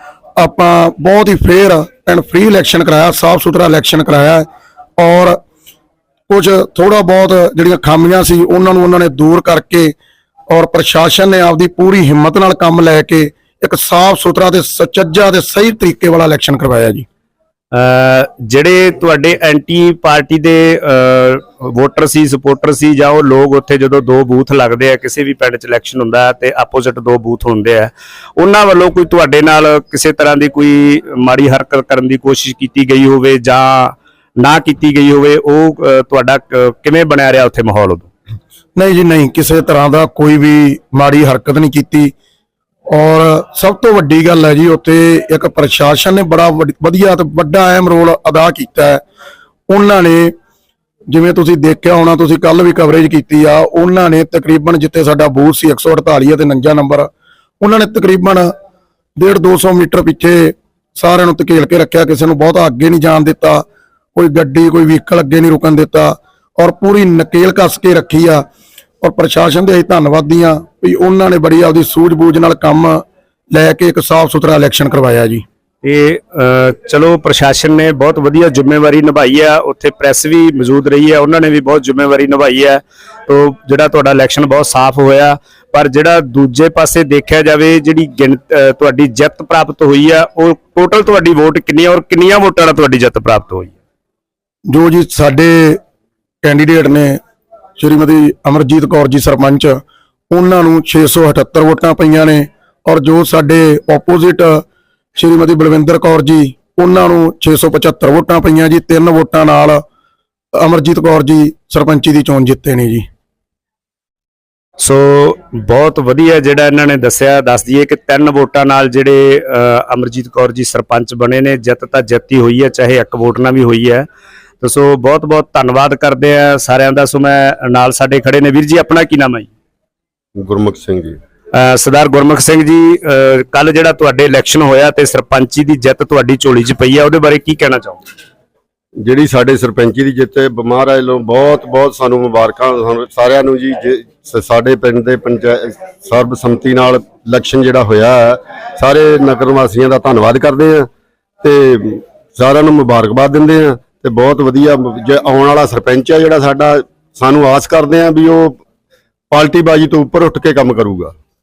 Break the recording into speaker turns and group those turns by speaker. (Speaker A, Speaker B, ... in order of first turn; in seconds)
Speaker A: 0.4-4.5, 5.0-5.4, 6.3-9.9, 10.5-17.1, 38.8-42.1, 42.9-49.0, 49.7-50.3, 51.1-57.1, 57.6-58.5, 59.2-63.6, 64.1-68.4, 69.0-75.4, 94.7-95.8, 96.4-97.2, 97.8-99.8, 100.3-104.6, 105.2-109.8, 110.6-113.0
Speaker B: 17.7-38.1, 75.8-93.8, 114.8-124.1, 124.6-129.5, 131.5-138.0
Speaker C: 130.4-131.2, 139.0-150.9, 151.4-158.6, 159.3-161.1